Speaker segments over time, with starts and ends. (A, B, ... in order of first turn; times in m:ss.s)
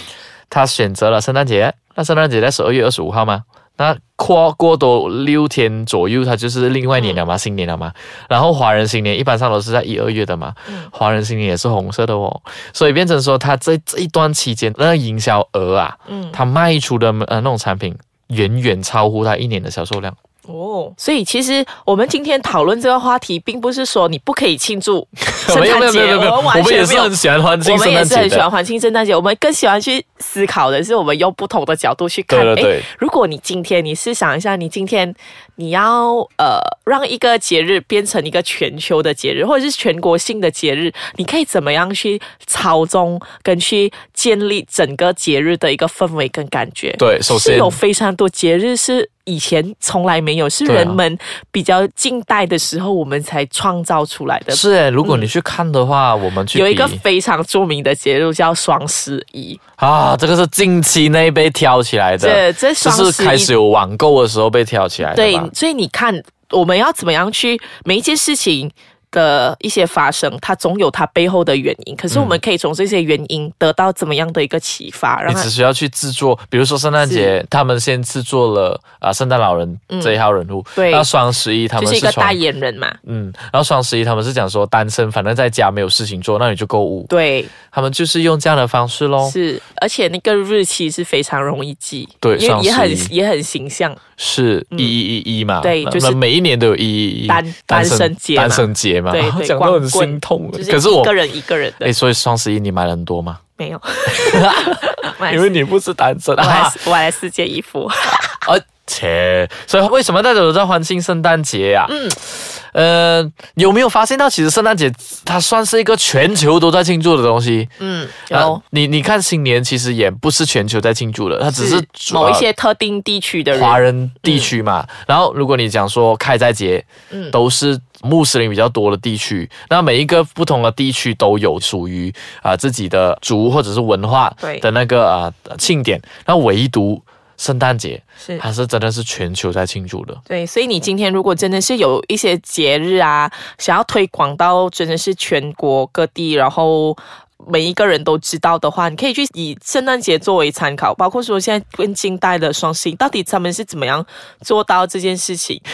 0:00.5-0:20.2 A
0:16.1-0:16.4 B
0:20.5-0:55.3 B
0:25.4-0:28.5 A
0:32.3-0:32.9 A
0:47.0-0:47.8 A
0:50.6-0:51.0 A
0:54.5-0:57.0 A
0:56.5-0:59.6 B
0:59.8-1:05.5 A
1:02.2-1:03.5 B
1:05.0-1:15.5 B
1:12.1-1:12.4 A
1:15.2-1:22.4 A
1:17.0-1:17.3 B
1:19.9-1:20.2 B
1:20.8-1:21.1 B
1:21.8-1:23.0 B
1:23.0-1:27.1 A
1:27.1-1:27.5 B
1:27.7-1:29.4 A
1:29.2-1:34.0 B
1:32.2-1:33.1 A
1:34.2-1:41.2 A
1:34.7-1:35.0 B
1:35.6-1:36.2 B
1:37.3-1:41.9 B
1:41.8-1:43.4 A
1:43.6-1:45.5 B
1:44.0-1:46.9 A
1:46.4-1:48.4 B
1:48.4-1:57.7 A
1:51.9-1:52.2 B
1:57.8-1:58.6 B
1:58.3-2:02.4 A
2:01.5-2:04.5 B
2:03.5-2:20.2 A
2:07.1-2:07.4 B
2:20.3-2:35.6 B